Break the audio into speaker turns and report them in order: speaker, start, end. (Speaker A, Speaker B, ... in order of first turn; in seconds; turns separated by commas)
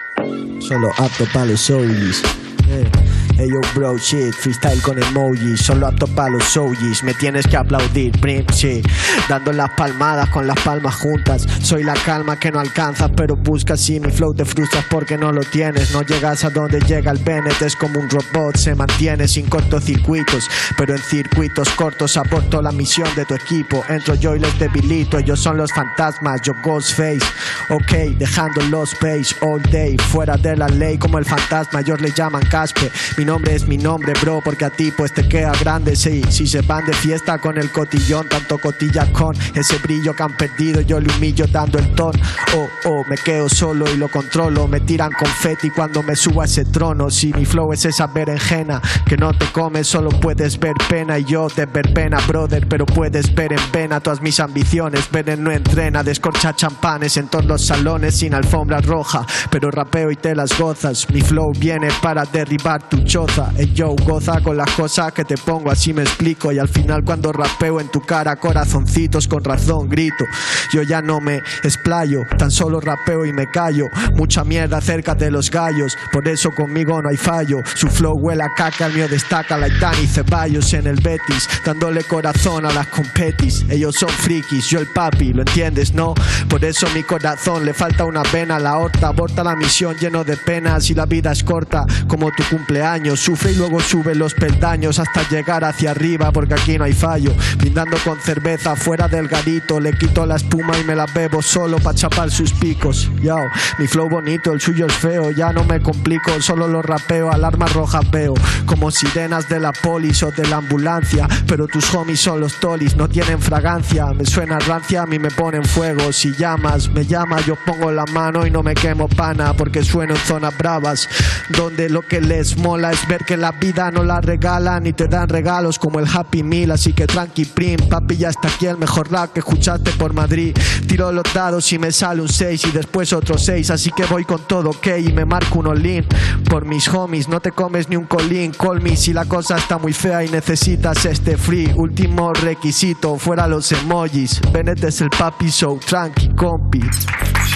Speaker A: 0.6-146.9